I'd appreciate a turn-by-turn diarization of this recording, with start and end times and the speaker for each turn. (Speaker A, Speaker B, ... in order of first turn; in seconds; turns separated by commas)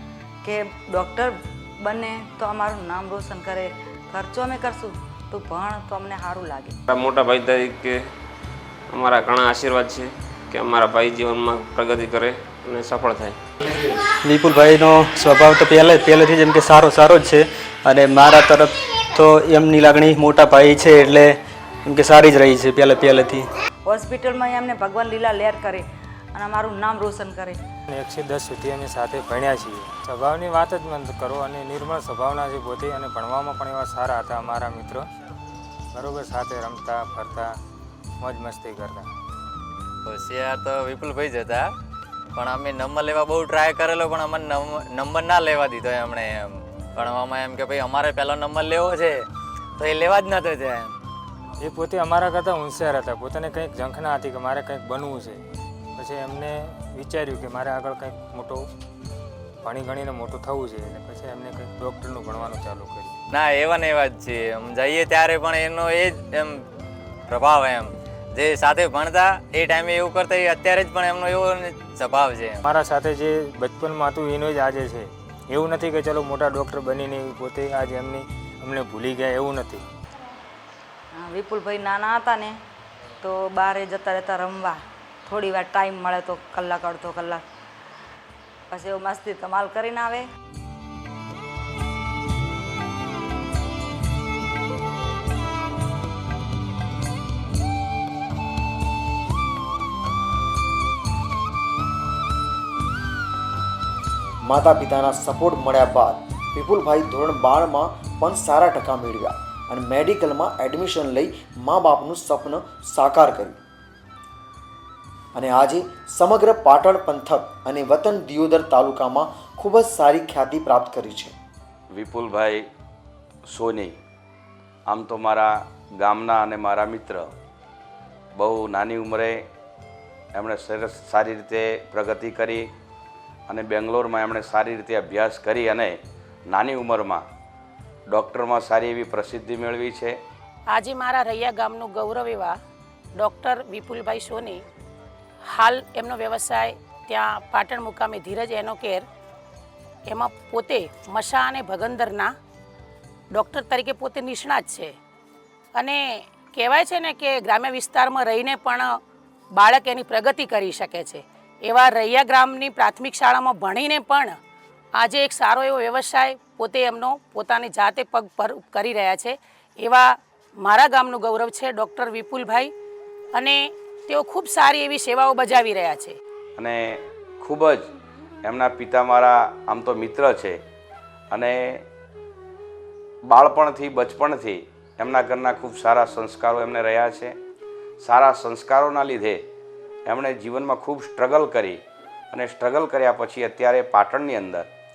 Speaker A: 0.4-6.7, Speaker B: 6.9-8.0, Speaker B: 8.9-13.3, Speaker C: 14.2-21.3, Speaker C: 21.9-23.4, Speaker A: 23.8-27.6, Speaker D: 27.9-35.1, Speaker D: 35.9-37.5, Speaker D: 38.2-39.1, Speaker E: 40.0-41.7, Speaker E: 42.4-50.9, Speaker D: 51.6-55.4, Speaker D: 56.0-58.7, Speaker D: 59.6-63.1, Speaker E: 63.3-66.6, Speaker E: 67.3-72.6, Speaker D: 72.6-79.8, Speaker A: 81.1-82.6, Speaker A: 83.2-87.4, Speaker A: 88.7-90.3, Speaker F: 104.4-113.6, Speaker F: 115.3-121.3, Speaker G: 121.9-122.7, Speaker G: 123.5-124.0, Speaker G: 124.9-127.3, Speaker G: 128.3-129.4, Speaker G: 130.3-132.7, Speaker G: 133.5-136.0, Speaker G: 136.5-137.2, Speaker G: 138.1-140.2, Speaker H: 140.7-142.6, Speaker H: 143.2-144.6, Speaker H: 145.5-149.1, Speaker H: 150.1-152.3, Speaker H: 153.3-154.9, Speaker H: 155.7-158.9, Speaker H: 159.5-164.3, Speaker H: 165.0-172.7, Speaker H: 173.3-176.2, Speaker G: 176.6-176.8, Speaker G: 177.4-177.9, Speaker G: 178.4-180.6, Speaker G: 181.3-181.8, Speaker G: 183.3-187.3, Speaker G: 188.0-189.4, Speaker G: 190.1-191.8, Speaker G: 192.3-194.7